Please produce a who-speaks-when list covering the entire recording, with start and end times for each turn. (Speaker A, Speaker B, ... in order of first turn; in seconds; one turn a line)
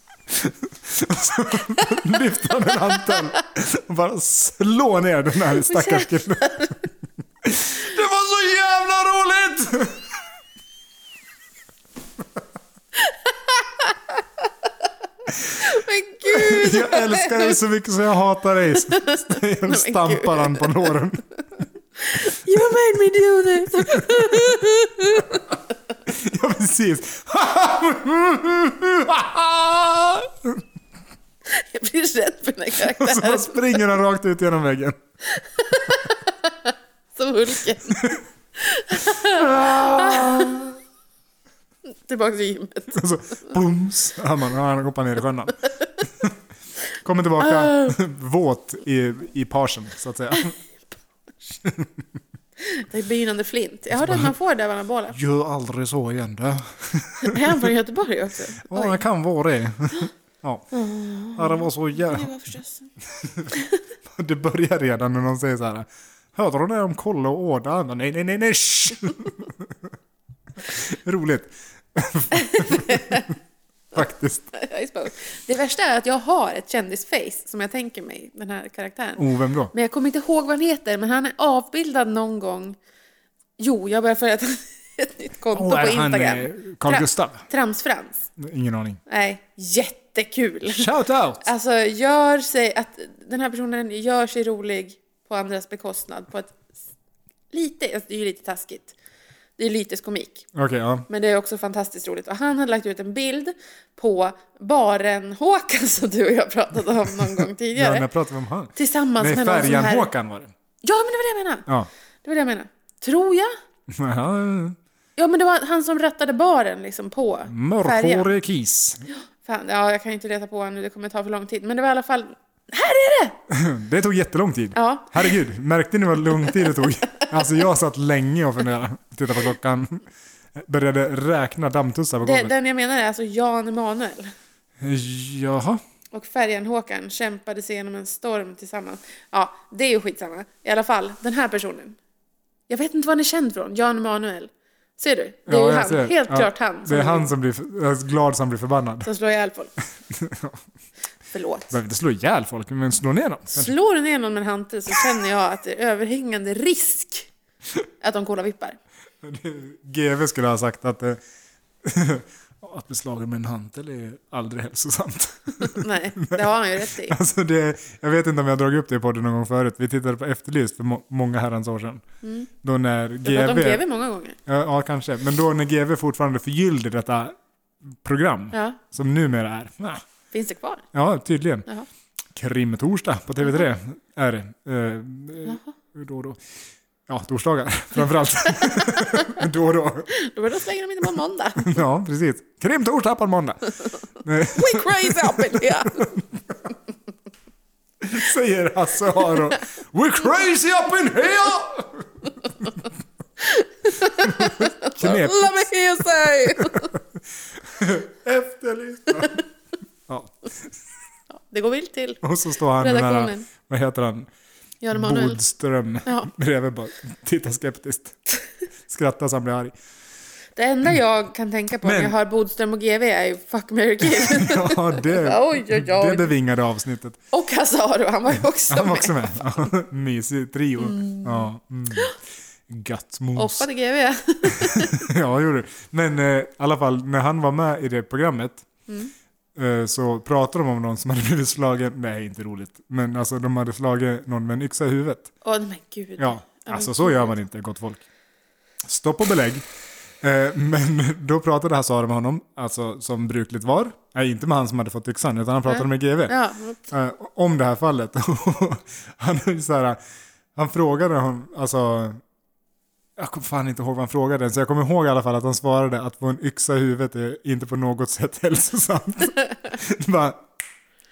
Speaker A: 0.3-6.9
Speaker B: 2.7-3.3
Speaker B: 5.5-6.7
Speaker A: 7.4-10.0
Speaker B: 12.9-14.7
Speaker B: 15.4-17.6
Speaker A: 16.3-21.2
Speaker B: 18.8-21.0
Speaker B: 22.0-25.4
Speaker A: 23.8-24.4
Speaker A: 26.1-30.6
Speaker B: 31.4-33.8
Speaker A: 32.8-35.0
Speaker B: 35.3-38.0
Speaker A: 37.9-38.2
Speaker B: 38.5-40.7
Speaker A: 39.2-40.7
Speaker B: 41.9-43.0
Speaker A: 42.9-46.3
Speaker A: 46.9-50.5
Speaker B: 47.4-48.0
Speaker A: 51.6-51.9
Speaker B: 52.6-55.2
Speaker A: 53.9-54.3
Speaker A: 55.1-57.7
Speaker B: 57.2-59.0
Speaker A: 58.6-60.7
Speaker B: 60.7-62.9
Speaker A: 61.3-62.3
Speaker A: 63.2-63.6
Speaker B: 63.5-63.8
Speaker A: 64.1-69.7
Speaker A: 70.6-73.3
Speaker B: 72.3-73.3
Speaker A: 73.9-74.5
Speaker B: 74.5-82.8
Speaker A: 79.2-79.7
Speaker B: 83.6-88.3
Speaker A: 85.5-87.4
Speaker A: 88.4-89.0
Speaker B: 89.1-96.6
Speaker A: 90.7-91.5
Speaker B: 97.5-98.9
Speaker B: 99.6-100.5
Speaker A: 100.5-101.0
Speaker B: 101.1-108.0
Speaker A: 107.7-110.5
Speaker B: 108.8-110.1
Speaker B: 110.8-111.7
Speaker B: 112.2-113.5
Speaker A: 113.9-114.8
Speaker B: 115.2-118.3
Speaker A: 117.5-119.0
Speaker B: 119.1-123.4
Speaker A: 123.5-132.5
Speaker B: 124.8-125.3
Speaker B: 126.4-127.0
Speaker B: 132.2-134.3
Speaker A: 134.8-135.8
Speaker B: 136.1-142.0
Speaker B: 142.7-147.3
Speaker A: 145.4-149.1
Speaker B: 149.0-149.7
Speaker A: 150.1-150.6
Speaker B: 151.3-151.8
Speaker A: 151.7-153.7
Speaker B: 153.5-157.3
Speaker B: 158.0-158.8
Speaker A: 159.2-161.2
Speaker A: 161.8-172.0
Speaker B: 165.6-167.2
Speaker B: 172.2-172.5
Speaker A: 172.6-173.8
Speaker B: 173.2-174.4
Speaker A: 174.4-177.4
Speaker A: 177.9-180.0
Speaker B: 178.5-178.8
Speaker B: 180.3-180.8
Speaker A: 180.9-181.7
Speaker A: 182.3-186.4
Speaker A: 187.1-190.1
Speaker B: 188.5-189.4
Speaker B: 190.1-191.8
Speaker A: 191.6-196.6
Speaker B: 194.5-196.1
Speaker A: 198.0-202.9
Speaker B: 199.2-199.5
Speaker B: 203.4-206.9
Speaker A: 204.0-207.0
Speaker A: 207.6-209.4
Speaker A: 210.1-210.7
Speaker B: 211.3-212.2
Speaker A: 212.2-214.3
Speaker B: 212.8-213.5
Speaker B: 214.8-215.4
Speaker A: 214.9-218.2
Speaker A: 218.9-219.7
Speaker B: 220.6-226.3
Speaker A: 221.8-222.1
Speaker A: 224.0-227.2
Speaker B: 227.3-229.6
Speaker A: 228.7-232.1
Speaker B: 230.8-232.1
Speaker A: 232.7-233.7
Speaker B: 233.3-235.1
Speaker A: 234.5-238.7
Speaker A: 239.6-245.3
Speaker B: 245.4-247.3
Speaker A: 246.2-248.0
Speaker A: 248.8-249.6
Speaker A: 250.2-256.4
Speaker B: 255.7-256.8
Speaker A: 256.9-260.0
Speaker A: 260.5-262.2
Speaker A: 263.2-270.4